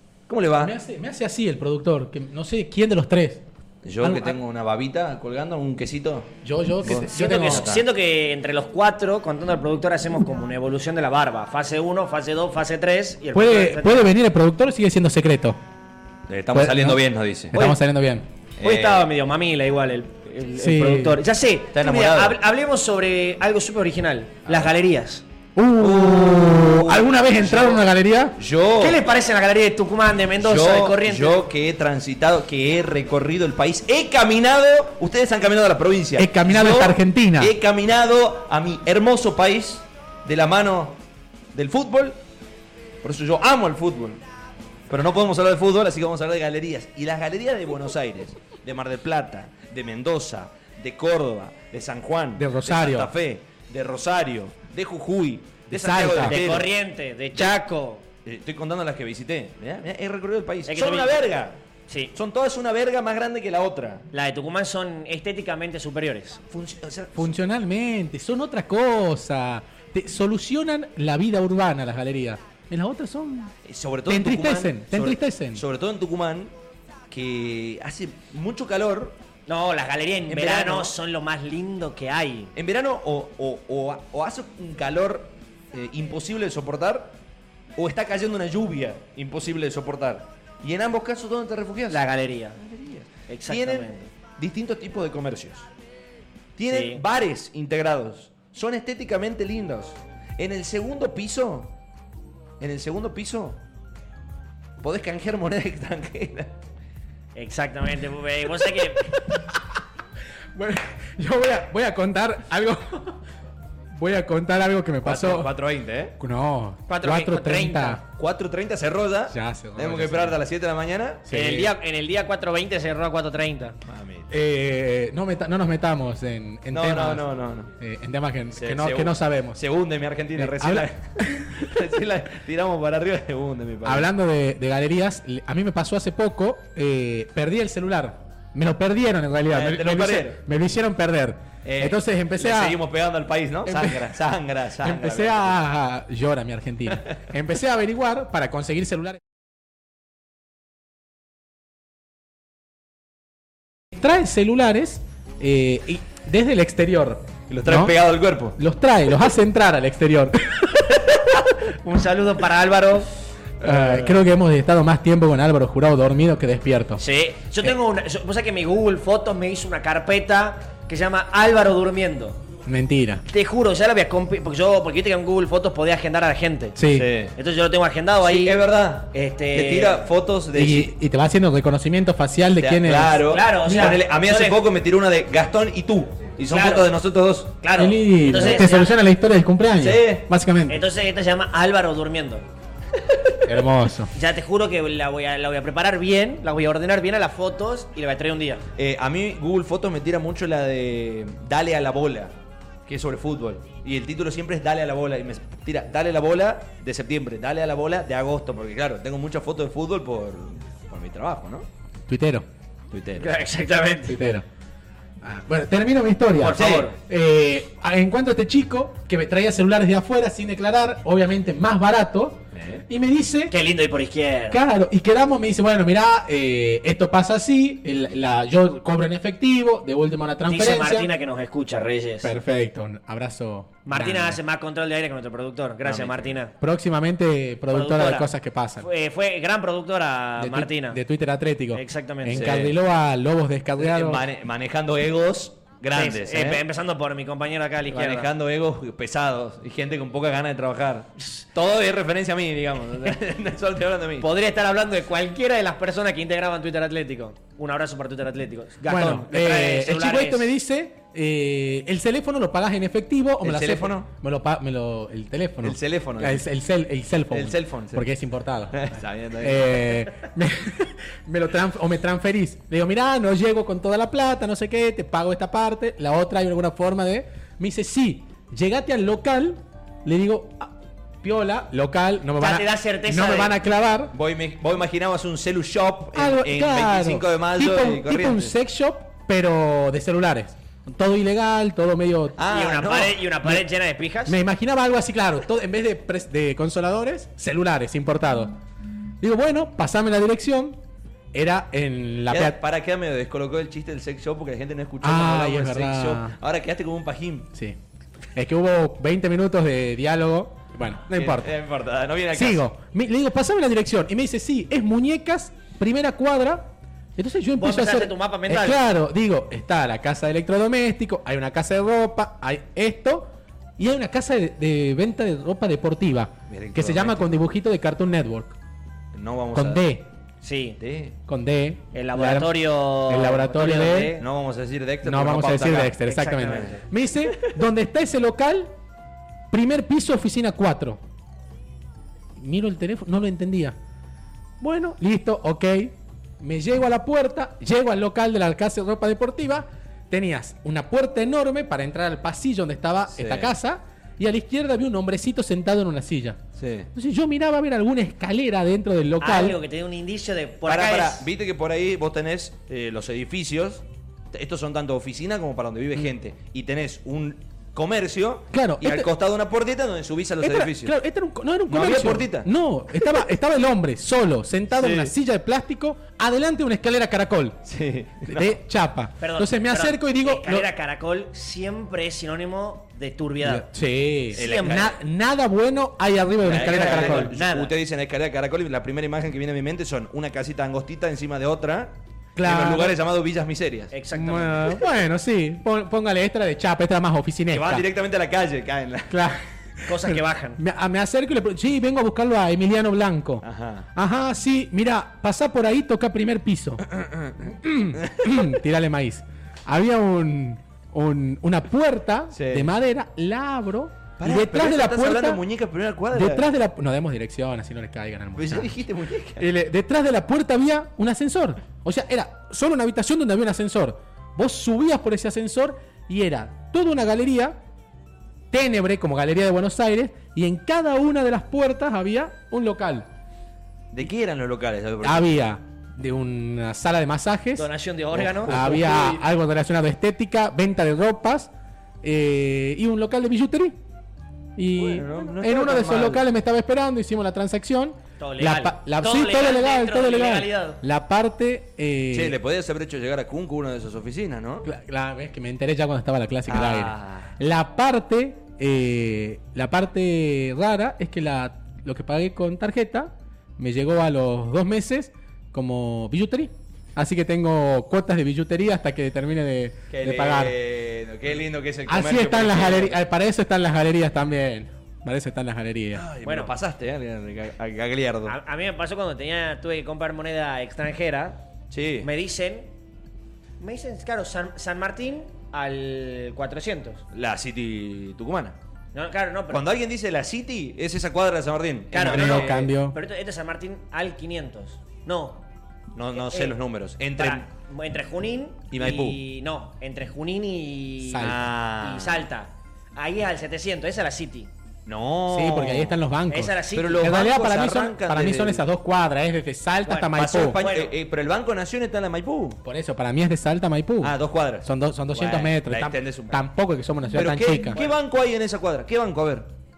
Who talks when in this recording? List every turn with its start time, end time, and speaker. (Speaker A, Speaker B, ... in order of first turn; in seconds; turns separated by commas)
Speaker A: 0.3-0.7, Speaker B: 0.6-3.4, Speaker A: 3.8-6.3, Speaker B: 4.0-4.4, Speaker B: 6.4-7.7, Speaker A: 6.8-7.8, Speaker C: 6.9-14.1, Speaker B: 13.3-15.6, Speaker A: 16.3-17.6, Speaker B: 16.5-17.0, Speaker C: 17.5-17.8, Speaker B: 17.5-18.3, Speaker A: 18.6-19.1, Speaker C: 18.6-25.2, Speaker B: 20.6-21.2, Speaker A: 21.7-22.4, Speaker A: 24.5-24.7, Speaker B: 25.6-28.4, Speaker A: 25.8-27.8, Speaker A: 28.4-29.0, Speaker C: 28.8-31.4, Speaker A: 30.4-41.0, Speaker B: 36.2-37.5, Speaker A: 41.5-42.2, Speaker A: 43.0-44.2, Speaker A: 44.9-56.7, Speaker B: 52.4-53.1, Speaker B: 55.7-56.4, Speaker C: 56.1-58.0, Speaker A: 58.3-61.6, Speaker C: 60.7-61.2, Speaker C: 61.9-62.1, Speaker A: 62.1-64.1, Speaker C: 64.1-66.4, Speaker A: 66.5-67.3, Speaker B: 67.2-73.5, Speaker A: 73.7-76.5, Speaker B: 74.1-75.6, Speaker A: 77.1-79.2, Speaker C: 79.5-82.5, Speaker A: 80.3-81.0, Speaker A: 82.5-87.2, Speaker A: 87.8-92.0, Speaker C: 91.9-92.6, Speaker A: 92.6-95.7, Speaker C: 93.3-94.1, Speaker A: 96.6-101.7, Speaker C: 96.7-97.0, Speaker A: 102.6-103.6, Speaker A: 104.8-106.5, Speaker C: 107.4-109.1, Speaker B: 110.5-113.2, Speaker B: 114.0-115.5, Speaker A: 115.0-116.2, Speaker B: 116.2-118.0, Speaker C: 116.9-118.0, Speaker A: 118.1-121.6, Speaker B: 119.3-120.4, Speaker B: 121.3-121.7, Speaker C: 121.3-123.8, Speaker A: 123.9-124.3, Speaker B: 124.3-127.3, Speaker A: 126.7-127.7, Speaker B: 127.8-129.6, Speaker A: 128.5-134.1, Speaker B: 130.4-130.9, Speaker B: 133.8-142.8, Speaker A: 139.5-140.4, Speaker A: 141.6-145.6, Speaker B: 143.7-144.2, Speaker B: 144.8-149.2, Speaker B: 153.9-157.9, Speaker A: 157.5-158.6, Speaker B: 158.6-160.8, Speaker C: 161.8-163.1, Speaker B: 163.6-167.0, Speaker A: 163.7-164.1, Speaker C: 167.0-172.4, Speaker B: 172.7-173.2, Speaker C: 173.3-176.8, Speaker B: 176.8-177.1, Speaker A: 176.9-177.3, Speaker C: 177.4-178.6, Speaker A: 178.2-180.9, Speaker C: 179.1-180.0, Speaker B: 180.6-183.9, Speaker A: 182.6-187.6, Speaker C: 183.3-184.6, Speaker C: 186.5-186.9, Speaker C: 187.6-189.0, Speaker B: 187.8-190.8, Speaker A: 189.8-190.2, Speaker C: 190.7-192.5, Speaker B: 193.5-194.1, Speaker C: 194.1-198.6, Speaker A: 198.8-202.3, Speaker A: 202.9-211.7, Speaker B: 212.1-212.5, Speaker A: 212.9-213.3, Speaker C: 213.2-214.2, Speaker B: 214.1-214.4, Speaker B: 215.2-223.5, Speaker C: 216.4-217.0, Speaker A: 216.5-216.9, Speaker A: 222.5-222.8, Speaker C: 223.5-224.6, Speaker B: 224.5-231.1, Speaker C: 230.5-232.3, Speaker B: 232.2-234.4, Speaker C: 233.9-236.5, Speaker A: 235.8-236.4, Speaker B: 236.6-238.9, Speaker C: 237.7-241.0, Speaker B: 240.4-244.3, Speaker C: 241.7-242.6, Speaker A: 242.3-242.8, Speaker A: 243.8-246.6, Speaker C: 245.9-248.3, Speaker A: 247.9-254.3, Speaker C: 254.2-260.5, Speaker A: 258.8-259.3, Speaker B: 258.9-268.8, Speaker A: 263.4-264.1, Speaker A: 265.6-266.5, Speaker A: 267.3-268.0, Speaker A: 268.7-270.1, Speaker B: 269.4-280.7, Speaker B: 281.2-284.1, Speaker C: 282.4-283.6, Speaker A: 284.1-288.6, Speaker B: 286.1-292.4, Speaker A: 292.4-293.2, Speaker C: 292.5-294.4, Speaker B: 294.3-298.6, Speaker B: 299.2-300.8, Speaker B: 301.3-302.6, Speaker A: 302.3-307.5, Speaker B: 305.0-306.3, Speaker B: 308.4-311.5, Speaker A: 311.1-312.7, Speaker B: 312.3-328.6, Speaker C: 317.6-318.8, Speaker A: 326.5-327.2, Speaker A: 329.1-329.8, Speaker B: 329.6-330.1, Speaker C: 330.4-330.8, Speaker A: 330.8-331.2, Speaker B: 331.3-334.2, Speaker C: 331.9-334.2, Speaker A: 334.2-336.8, Speaker B: 335.0-338.7, Speaker C: 336.1-336.8, Speaker B: 339.5-341.0, Speaker B: 342.4-343.8, Speaker B: 344.6-356.4, Speaker A: 353.1-353.5, Speaker A: 356.6-356.9, Speaker B: 356.9-359.6, Speaker C: 359.2-361.3, Speaker A: 360.7-370.9, Speaker B: 368.5-369.1, Speaker B: 370.4-377.6, Speaker A: 371.7-372.5, Speaker A: 374.7-375.1, Speaker A: 377.6-378.6, Speaker B: 378.3-380.7, Speaker C: 379.2-383.7, Speaker B: 383.4-387.3, Speaker C: 384.3-384.9, Speaker A: 384.4-384.9, Speaker A: 386.4-393.9, Speaker C: 386.5-387.7, Speaker B: 392.4-393.0, Speaker C: 393.9-394.8, Speaker B: 394.1-397.9, Speaker A: 397.5-399.2, Speaker B: 399.1-403.4, Speaker C: 399.9-400.6, Speaker A: 403.4-403.9, Speaker B: 403.9-406.8, Speaker A: 406.9-408.5, Speaker B: 407.6-415.4, Speaker A: 412.3-412.7, Speaker A: 414.2-416.5, Speaker B: 416.1-418.7, Speaker A: 418.4-419.5, Speaker B: 419.4-427.6, Speaker B: 428.5-433.1, Speaker A: 433.9-435.3, Speaker B: 435.0-437.7, Speaker C: 437.6-438.8, Speaker A: 438.1-439.2, Speaker B: 438.5-441.5, Speaker B: 442.0-443.8, Speaker B: 444.6-452.4, Speaker A: 444.8-446.2, Speaker C: 448.2-450.8, Speaker A: 452.1-454.7, Speaker B: 454.6-470.6, Speaker A: 456.5-457.3, Speaker A: 469.9-473.0, Speaker B: 471.9-476.1, Speaker A: 475.9-478.3, Speaker C: 476.2-476.5, Speaker C: 478.3-481.4, Speaker A: 481.7-482.1, Speaker C: 482.0-482.7, Speaker C: 483.6-487.0, Speaker A: 487.1-488.6, Speaker C: 488.9-489.6, Speaker A: 489.5-492.6, Speaker C: 491.9-495.4, Speaker B: 492.0-493.0, Speaker A: 495.9-497.5, Speaker C: 496.1-496.6, Speaker C: 497.2-504.5, Speaker A: 498.7-499.2, Speaker B: 501.0-501.4, Speaker A: 501.2-502.3, Speaker A: 504.9-506.0, Speaker B: 505.3-510.6, Speaker C: 506.3-507.1, Speaker A: 506.7-508.7, Speaker C: 509.9-510.9, Speaker A: 510.1-512.6, Speaker B: 512.6-517.8, Speaker A: 514.0-516.4, Speaker A: 517.1-519.5, Speaker C: 517.6-518.0